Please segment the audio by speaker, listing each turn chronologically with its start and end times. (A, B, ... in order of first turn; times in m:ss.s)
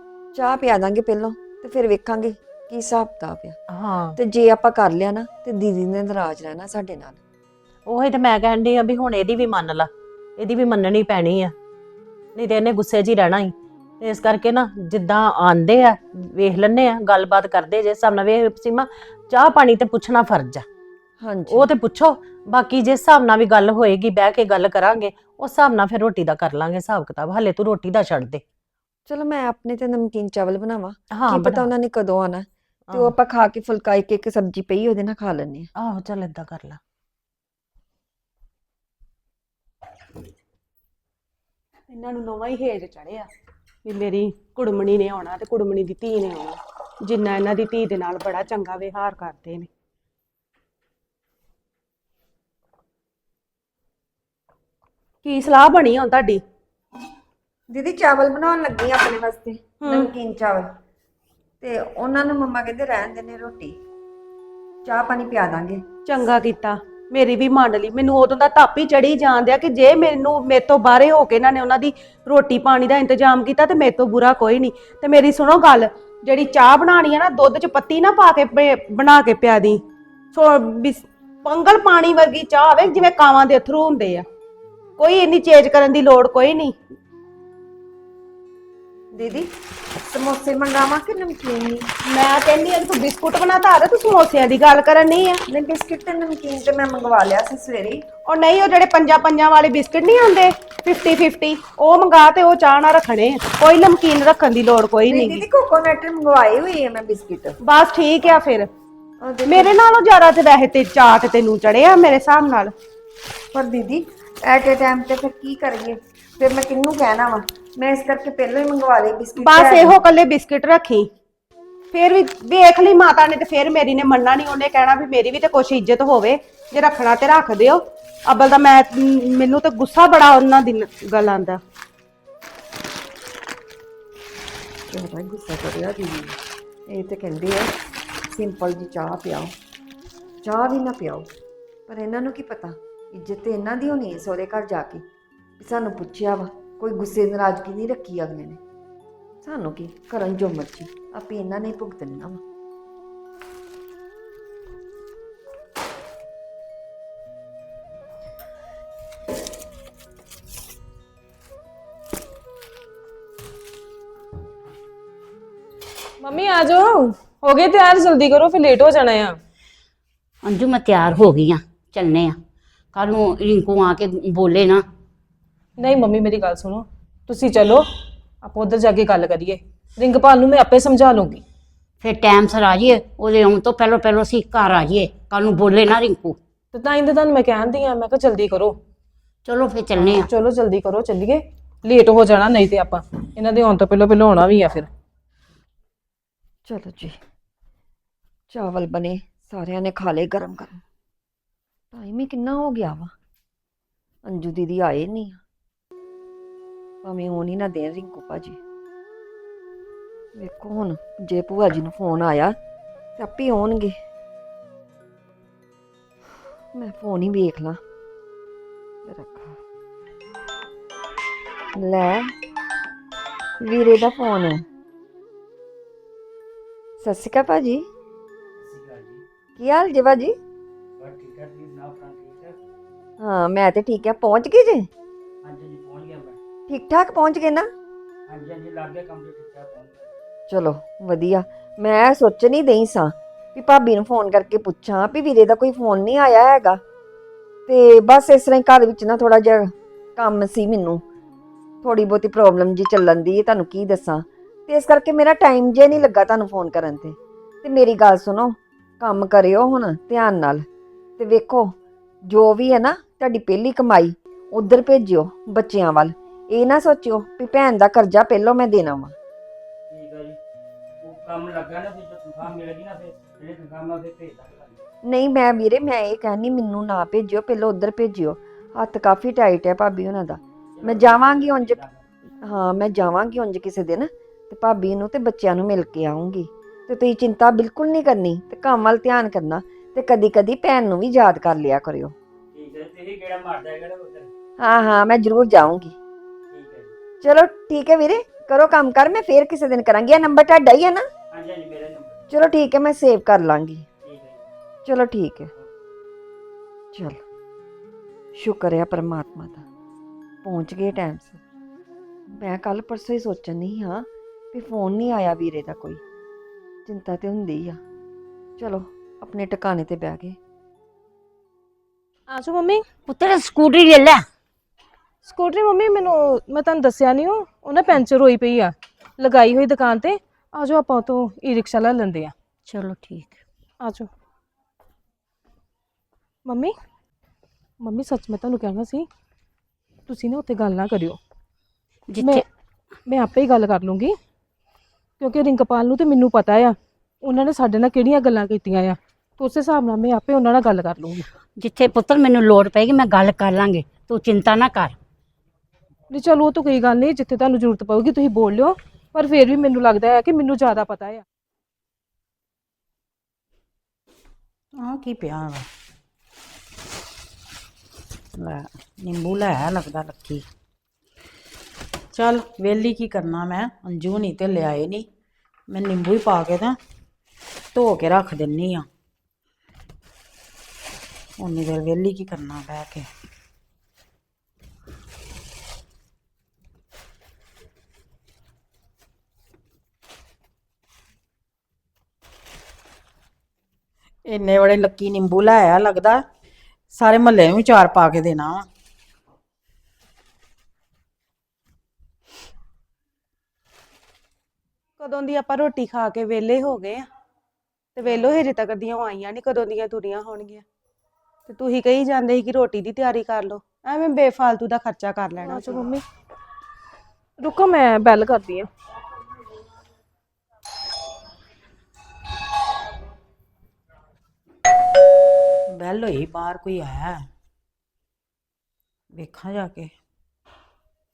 0:00.4-0:03.6 A
0:03.7-0:04.2 B
0:04.2-0:07.2 A
0:07.9-0:11.5 B
0:12.4-0:20.7 B
0:21.2-0:21.7 A
0:21.5-0:28.4 B
0:29.1-0:35.7 A
0:31.1-0:31.7 B
0:32.9-0:33.2 B
0:35.8-0:36.8 B
0:41.9-0:43.3 C
0:43.8-0:49.7 C
0:55.2-0:56.4 C
0:57.7-1:00.7 A
0:59.8-1:00.1 C
1:01.6-1:03.8 A
1:04.8-1:05.8 A
1:06.1-1:19.8 C
1:20.3-1:24.2 C
1:25.0-1:26.8 C
1:29.2-1:29.5 A
1:30.1-1:31.9 A
1:32.1-1:35.4 C
1:35.5-1:38.0 A
1:38.3-1:45.4 C
1:45.1-1:47.6 A
1:47.6-1:48.7 C
1:49.2-1:49.7 A
1:49.5-1:52.7 C
1:53.5-2:00.0 A
1:59.4-2:01.1 C
2:01.9-2:11.6 C
2:14.9-2:16.4 A
2:16.9-2:17.7 A
2:18.3-2:19.6 A
2:20.4-2:21.3 A
2:21.9-2:25.0 A
2:25.6-2:28.6 A
2:29.4-2:32.4 A
2:46.2-2:49.4 D
2:50.4-2:52.4 E
2:52.9-2:54.8 E
2:55.8-2:57.8 D
2:58.4-3:01.4 D
3:02.0-3:06.4 E
3:06.7-3:08.8 D
3:09.4-3:10.3 E
3:10.0-3:14.9 D
3:16.7-3:17.2 A
3:18.5-3:20.8 A
3:21.9-3:23.1 A
3:24.3-3:25.4 A
3:27.0-3:28.6 A
3:30.4-3:32.6 A
3:33.2-3:34.0 A
3:36.7-3:37.8 A
3:39.1-3:39.6 A
3:41.8-3:42.3 A
3:43.6-3:44.6 A
3:47.0-3:47.9 A
3:48.6-3:49.2 F
3:49.6-3:50.4 A
3:51.0-3:52.6 F
3:53.2-3:54.9 A
3:55.4-3:56.4 F
3:56.7-3:57.7 A
3:58.3-4:00.1 F
4:00.5-4:06.8 A
4:07.7-4:11.0 A
4:11.8-4:20.7 A
4:21.2-4:21.8 A
4:22.3-4:29.2 A
4:29.9-4:30.4 F
4:31.0-4:34.8 F
4:35.1-4:41.8 A
4:40.7-4:42.0 F
4:42.4-4:52.1 A
4:52.5-4:54.3 F
4:54.6-4:56.0 A
4:56.5-4:56.9 F
4:57.2-5:01.0 A
5:01.3-5:02.2 F
5:02.3-5:03.9 A
5:04.0-5:04.5 F
5:04.8-5:05.5 A
5:06.9-5:07.2 A
5:08.4-5:09.6 A
5:10.4-5:11.4 A
5:12.4-5:16.0 A
5:16.9-5:17.8 A
5:18.6-5:20.4 A
5:22.3-5:22.9 D
5:23.1-5:24.2 E
5:25.2-5:32.3 D
5:32.7-5:33.4 E
5:33.8-5:34.1 D
5:36.5-5:36.7 D
5:37.8-5:39.1 D
5:40.1-5:41.2 D
5:42.1-5:42.4 E
5:42.2-5:42.4 D
5:43.0-5:44.2 D
5:45.2-5:51.3 D
5:51.6-5:55.0 E
5:56.1-6:01.2 D
6:04.8-6:05.7 G
6:08.4-6:10.5 G
6:12.1-6:15.1 G
6:15.7-6:16.8 G
6:17.7-6:18.9 G
6:21.4-6:23.1 G
6:34.2-6:36.2 G
6:36.9-6:38.7 G
6:45.0-6:47.1 C
6:48.0-6:50.6 C
6:51.5-6:55.9 C
6:55.4-6:56.0 D
6:57.4-6:58.7 D
7:05.7-7:07.3 G
7:09.1-7:09.9 G